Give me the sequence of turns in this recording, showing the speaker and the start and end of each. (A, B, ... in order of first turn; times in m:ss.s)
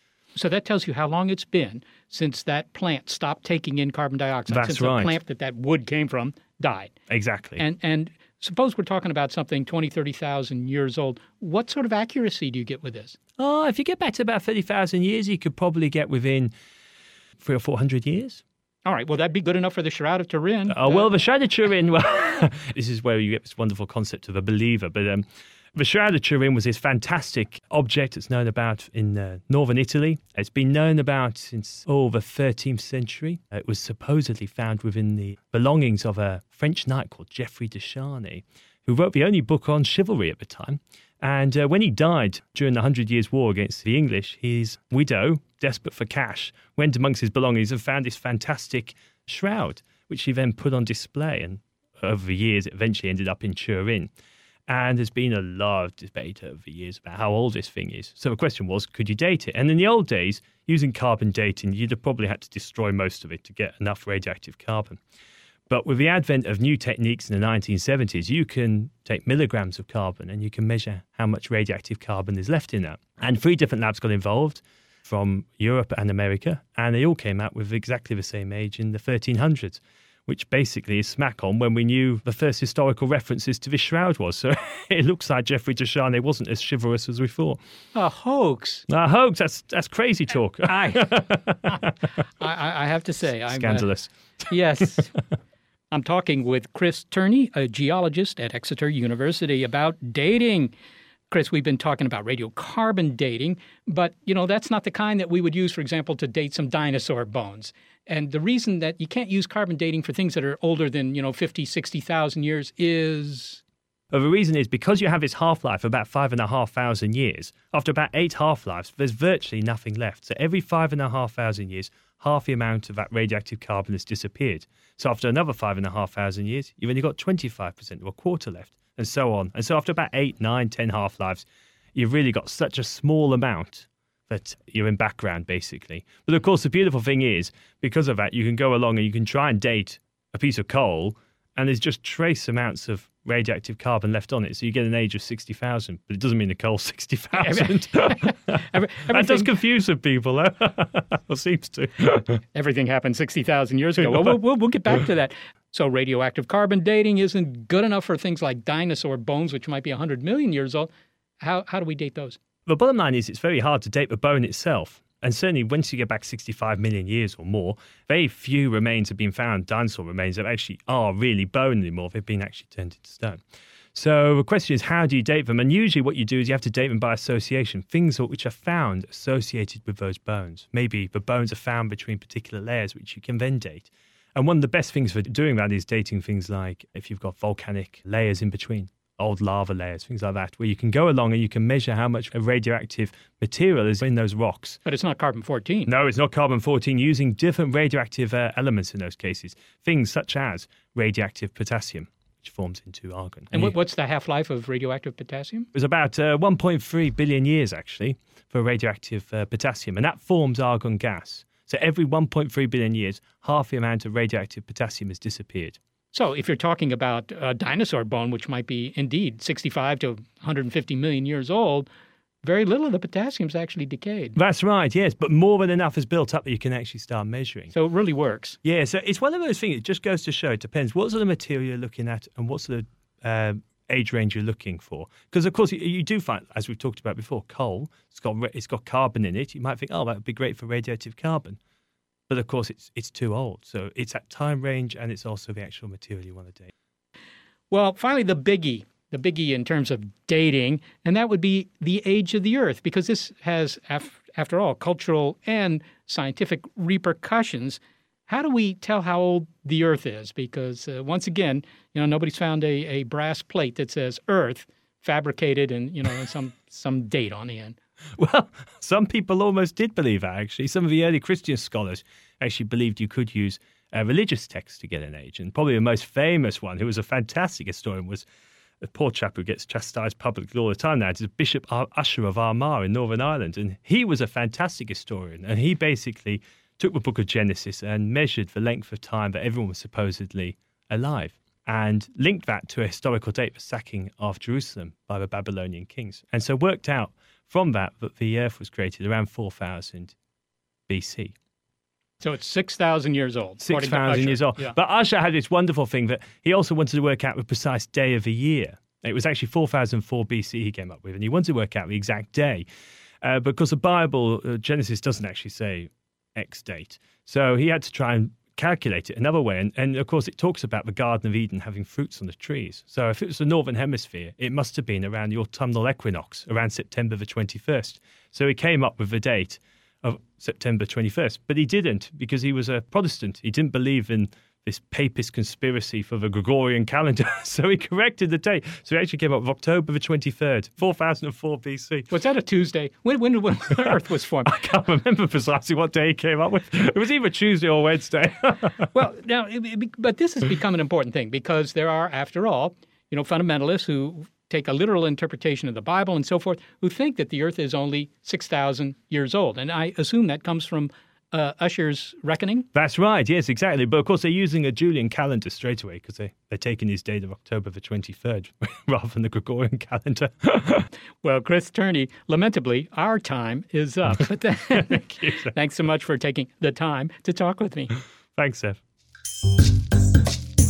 0:00.3-0:06.9 A
0:04.5-0:05.2 B
0:07.1-0:07.6 B
0:07.6-0:13.2 A
0:13.4-0:16.5 B
0:17.4-0:18.4 B
0:18.8-0:21.1 A
0:20.7-0:54.1 B
0:54.7-1:05.0 B
1:05.7-1:27.6 B
1:27.9-1:28.9 A
1:28.9-1:31.9 B
1:30.6-1:33.9 A
1:33.5-1:34.1 B
1:34.5-1:35.1 A
1:35.9-1:40.7 A
1:41.3-1:53.6 A
1:54.1-2:32.4 B
2:27.3-2:29.5 A
2:32.5-2:40.9 A
2:41.4-2:42.4 A
2:42.6-2:53.4 B
2:53.9-3:14.8 B
3:14.8-3:15.9 A
3:15.9-3:23.7 B
3:23.5-3:25.7 A
3:25.7-3:35.8 B
3:36.1-3:41.9 A
3:42.4-3:44.4 A
3:44.4-3:47.7 B
3:47.7-3:48.6 A
3:48.6-4:01.6 B
4:02.3-4:06.7 B
4:07.7-4:27.8 A
4:28.2-4:38.2 B
4:38.8-5:00.1 B
5:00.9-5:01.3 B
5:02.2-5:04.7 A
5:03.6-5:12.6 B
5:13.2-5:42.1 B
5:42.1-5:44.5 A
5:44.4-5:48.9 B
5:48.9-6:02.7 A
6:02.7-6:10.9 B
6:11.2-6:17.9 A
6:14.8-6:15.5 B
6:18.4-6:18.8 B